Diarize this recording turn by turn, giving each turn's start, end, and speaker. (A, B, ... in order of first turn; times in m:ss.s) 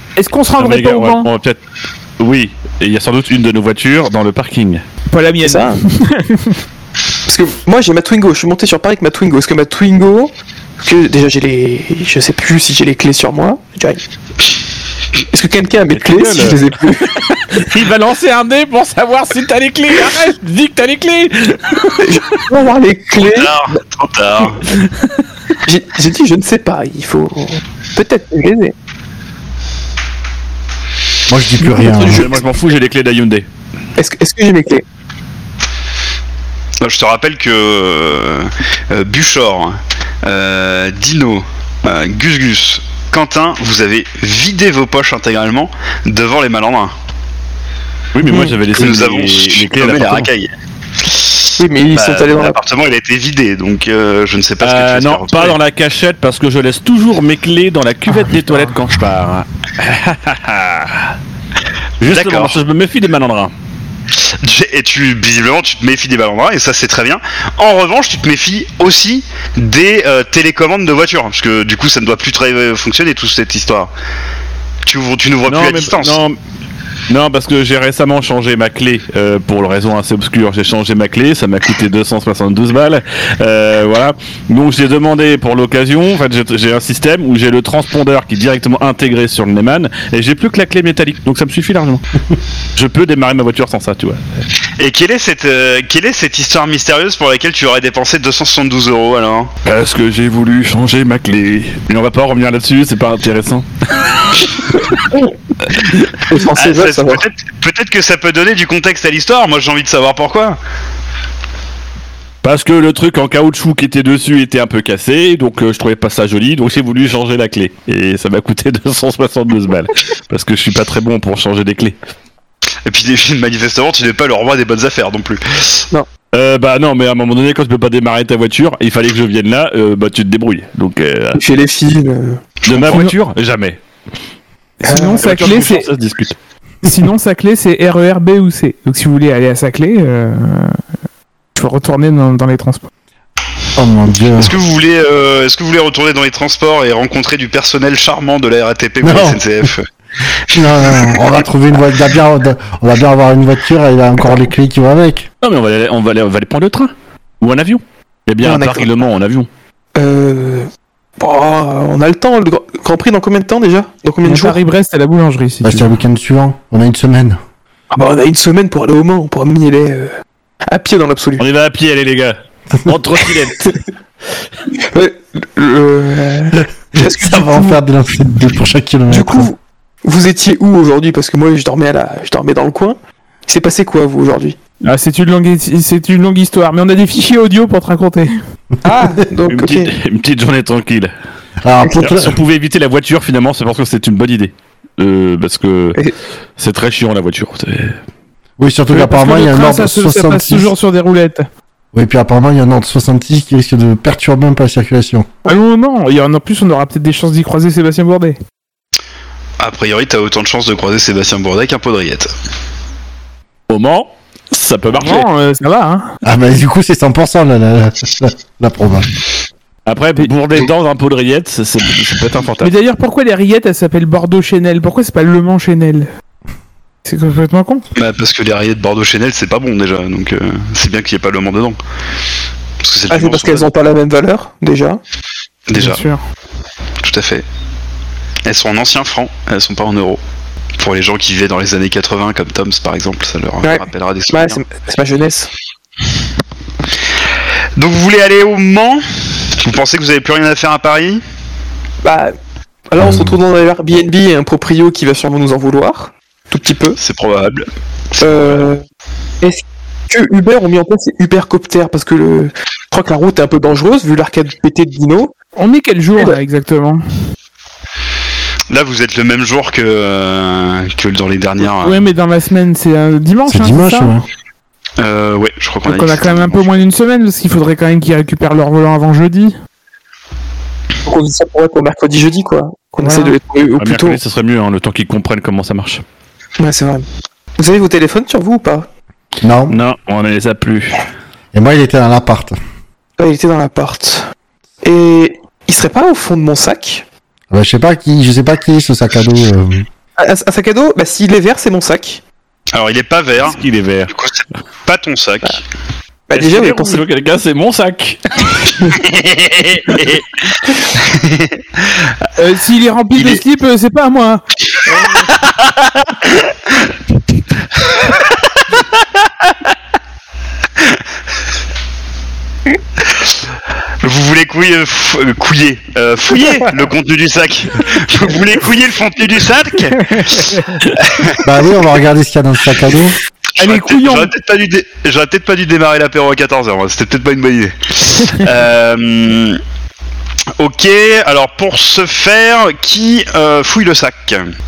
0:00.2-0:01.3 A
0:00.6-0:01.6 B
0:02.2-0:04.8 B
0:05.1-0:06.6 A
0:05.4-0:05.8 C
0:07.3-0:14.0 C
0:15.3-0:17.2 C
0:15.9-0:22.2 B
0:22.0-0:23.6 C
0:23.2-0:24.6 D
0:24.7-0:25.1 B
0:25.6-0:28.7 C
0:31.3-0:32.3 E
0:31.6-0:32.4 C
0:32.0-0:33.5 B
0:34.0-0:34.8 C
0:36.8-0:46.9 D
0:48.1-0:50.3 B
0:48.3-0:48.6 C
0:48.7-0:50.5 D
0:51.0-0:55.6 D
0:51.6-0:52.6 C
0:54.6-1:01.1 B
0:58.3-0:58.7 A
1:02.0-1:03.5 B
1:02.1-1:02.6 D
1:04.2-1:13.9 D
1:14.8-1:16.2 D
1:15.5-1:16.4 B
1:17.1-1:32.0 B
1:32.8-1:34.4 B
1:34.8-1:39.5 D
1:39.6-1:44.8 B
1:46.2-1:47.3 C
1:46.5-1:50.6 D
1:52.4-2:02.0 B
2:02.9-2:05.9 D
2:06.3-2:11.4 B
2:11.4-2:12.4 C
2:12.7-2:13.8 B
2:12.9-2:13.1 A
2:14.8-2:15.9 A
2:14.9-2:15.3 C
2:15.2-2:16.4 B
2:16.8-2:20.8 A
2:21.6-2:22.9 A
2:23.8-2:24.6 E
2:24.4-2:29.9 D
2:29.0-2:29.7 E
2:30.5-2:35.3 E
2:30.5-2:31.1 D
2:35.4-2:39.5 B
2:38.4-2:38.9 C
2:40.0-2:44.6 C
2:44.2-2:45.9 A
2:45.6-2:47.4 E
2:47.9-2:50.1 C
2:50.7-2:51.4 C
2:51.4-2:53.8 B
2:54.9-2:57.8 C
2:56.5-2:59.5 E
2:59.1-3:04.6 C
3:04.8-3:08.4 A
3:08.8-3:09.9 C
3:09.5-3:11.1 B
3:11.6-3:12.4 E
3:12.0-3:16.0 B
3:16.6-3:18.0 B
3:18.6-3:20.7 E
3:18.9-3:21.5 A
3:21.9-3:25.3 E
3:25.5-3:28.4 A
3:29.6-3:32.3 D
3:33.7-3:35.3 B
3:35.0-3:36.2 A
3:36.2-3:39.1 E
3:39.9-3:42.7 B
3:42.6-3:46.1 A
3:47.0-3:47.8 A
3:48.0-3:51.8 D
3:52.8-3:53.7 D
3:53.1-3:55.0 C
3:55.7-3:56.0 D
3:55.8-3:56.2 A
3:57.0-3:57.4 D
3:58.4-4:00.2 D
4:00.8-4:04.6 D
4:03.6-4:05.5 C
4:07.8-4:09.0 D
4:09.6-4:11.2 D
4:12.0-4:12.3 C
4:12.9-4:17.0 C
4:13.0-4:13.4 E
4:17.0-4:18.6 D
4:18.2-4:18.8 C
4:19.4-4:25.3 C
4:25.6-4:27.0 A
4:28.7-4:32.0 D
4:31.6-4:34.1 A
4:33.5-4:34.3 E
4:35.0-4:36.5 D
4:35.8-4:39.6 A
4:41.0-4:44.2 C
4:43.0-4:43.4 A
4:43.8-4:46.0 B
4:46.6-4:47.1 C
4:47.6-4:48.9 C
4:49.4-4:49.8 E
4:49.7-4:51.1 B
4:51.5-4:52.6 E
4:53.2-4:54.3 C
4:54.8-4:57.0 C
4:57.5-4:59.9 E
5:00.2-5:02.2 C
5:02.7-5:05.6 D
5:03.4-5:04.1 B
5:06.3-5:07.0 C
5:06.3-5:08.8 B
5:09.0-5:10.2 D
5:10.9-5:12.1 D
5:12.4-5:15.3 A
5:13.2-5:13.4 D
5:15.2-5:16.5 D
5:18.1-5:19.0 D
5:24.0-5:31.4 D
5:31.4-5:33.2 E
5:33.6-5:34.3 A
5:33.6-5:39.6 D
5:40.6-5:44.5 D